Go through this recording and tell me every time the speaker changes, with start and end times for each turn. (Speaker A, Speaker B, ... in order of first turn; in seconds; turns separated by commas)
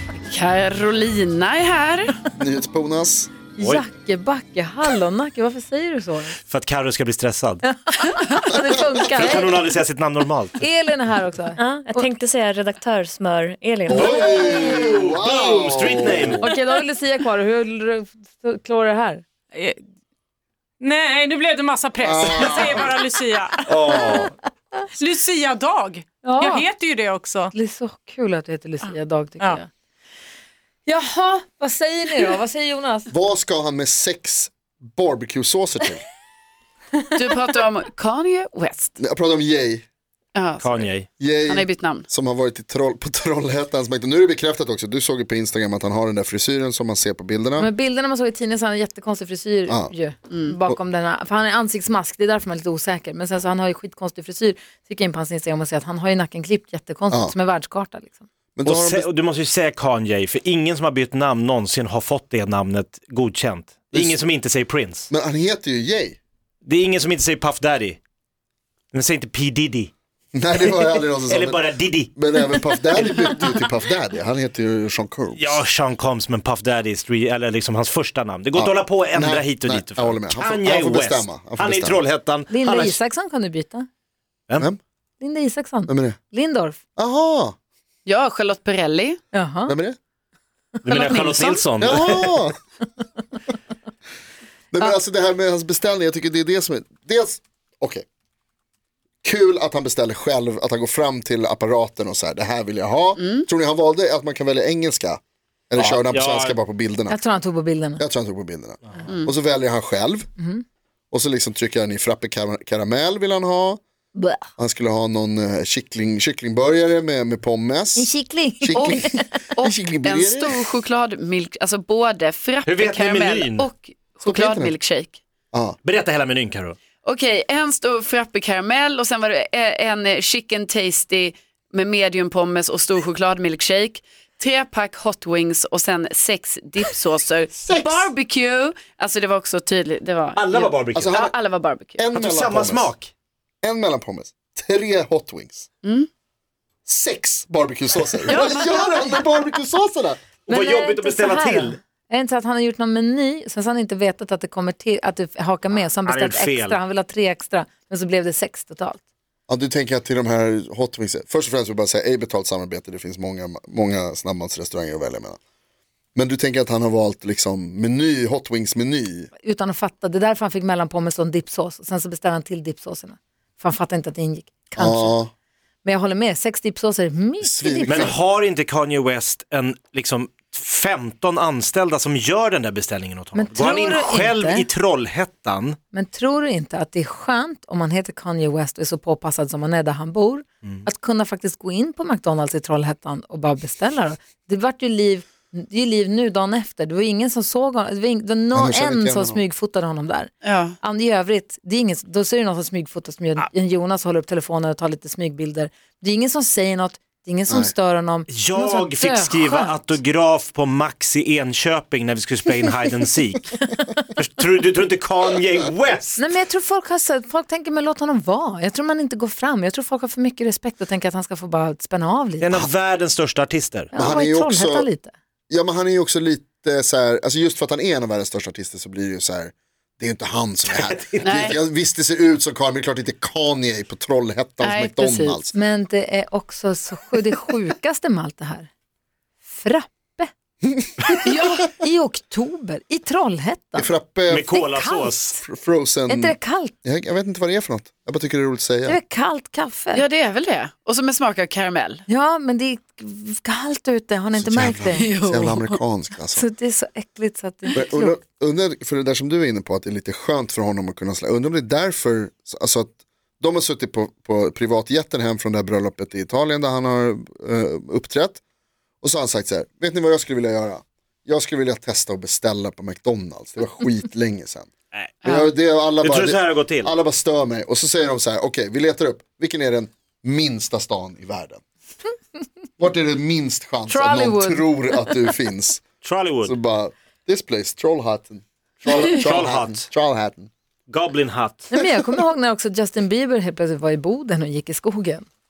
Speaker A: 0.3-2.2, Speaker B: 2.3-3.3, Speaker C: 3.5-6.4, Speaker D: 6.5-7.6, Speaker C: 7.6-9.6, Speaker D: 9.1-10.6, Speaker C: 10.6-12.1, Speaker E: 11.6-14.9, Speaker B: 13.9-16.5, Speaker D: 14.7-16.5, Speaker C: 16.4-19.2, Speaker F: 19.5-19.8, Speaker F: 20.8-23.9, Speaker B: 22.0-22.9, Speaker D: 23.7-24.3, Speaker C: 23.9-24.3, Speaker F: 24.9-27.5, Speaker C: 26.2-26.7, Speaker C: 27.5-29.7, Speaker F: 28.8-29.6, Speaker C: 30.9-33.1, Speaker B: 33.1-36.0, Speaker A: 37.1-39.0, Speaker B: 39.0-39.8, Speaker A: 40.3-40.9, Speaker D: 40.6-41.1, Speaker B: 41.2-47.7, Speaker A: 41.5-42.1, Speaker C: 47.6-58.2, Speaker B: 49.7-49.9, Speaker A: 50.3-50.5, Speaker B: 58.5-59.1, Speaker D: 58.6-65.1, Speaker B: 63.9-64.2, Speaker B: 65.1-66.2, Speaker D: 66.6-68.0, Speaker D: 68.9-69.9, Speaker B: 70.3-75.6, Speaker D: 70.6-73.3, Speaker D: 75.3-83.0, Speaker B: 78.5-82.0, Speaker C: 82.5-83.9, Speaker C: 85.2-86.8, Speaker B: 85.9-86.2, Speaker B: 87.0-87.5, Speaker A: 88.0-89.2, Speaker C: 89.3-89.8, Speaker B: 89.7-90.0, Speaker D: 90.8-92.4, Speaker A: 90.9-91.6, Speaker B: 91.8-92.5, Speaker B: 94.7-98.0, Speaker B: 99.2-107.2, Speaker A: 103.2-103.5, Speaker D: 105.8-106.5, Speaker C: 107.1-108.0, Speaker B: 108.0-110.3, Speaker C: 110.4-110.6, Speaker B: 111.1-113.8, Speaker C: 114.1-114.4, Speaker B: 114.6-120.6, Speaker C: 118.0-119.3, Speaker A: 118.7-125.2, Speaker D: 122.6-123.7, Speaker B: 124.2-124.7, Speaker B: 125.5-125.8, Speaker D: 125.8-126.8, Speaker A: 127.0-142.0, Speaker B: 137.5-138.1, Speaker D: 140.3-141.3, Speaker B: 140.9-141.3, Speaker B: 142.0-142.9, Speaker D: 142.1-143.1, Speaker B: 143.6-145.7, Speaker B: 146.8-150.2, Speaker A: 148.3-149.2, Speaker D: 150.5-151.8, Speaker C: 150.5-159.0, Speaker D: 156.0-156.8, Speaker B: 159.5-165.4, Speaker B: 166.1-169.3, Speaker C: 169.4-175.2, Speaker B: 174.7-175.3, Speaker C: 175.8-178.2, Speaker B: 177.4-178.1, Speaker D: 177.8-185.8, Speaker C: 183.3-184.7, Speaker C: 185.9-209.8, Speaker B: 198.5-199.4, Speaker A: 200.4-200.8, Speaker D: 208.3-216.2, Speaker C: 216.2-222.5, Speaker D: 222.4-223.9, Speaker C: 223.9-225.1, Speaker B: 223.9-224.9, Speaker B: 225.5-235.5, Speaker D: 230.7-231.5, Speaker A: 231.2-231.6, Speaker A: 234.6-235.4, Speaker C: 235.5-238.7, Speaker C: 239.4-240.3, Speaker B: 240.8-241.1, Speaker A: 241.2-241.7, Speaker C: 241.7-245.4, Speaker B: 243.8-244.5, Speaker D: 244.3-245.4, Speaker B: 245.4-249.0, Speaker C: 246.1-246.7, Speaker C: 248.8-250.0, Speaker A: 249.9-252.0, Speaker C: 252.1-255.1, Speaker B: 254.3-256.5, Speaker A: 254.9-255.8, Speaker C: 256.3-258.2, Speaker B: 257.7-268.4, Speaker B: 269.0-274.7, Speaker A: 275.2-275.5, Speaker B: 275.2-281.6, Speaker D: 276.0-276.9, Speaker B: 282.8-285.8, Speaker C: 283.9-285.2, Speaker D: 286.0-286.5, Speaker B: 286.4-290.5, Speaker D: 288.9-289.9, Speaker D: 290.9-291.7, Speaker C: 291.7-295.3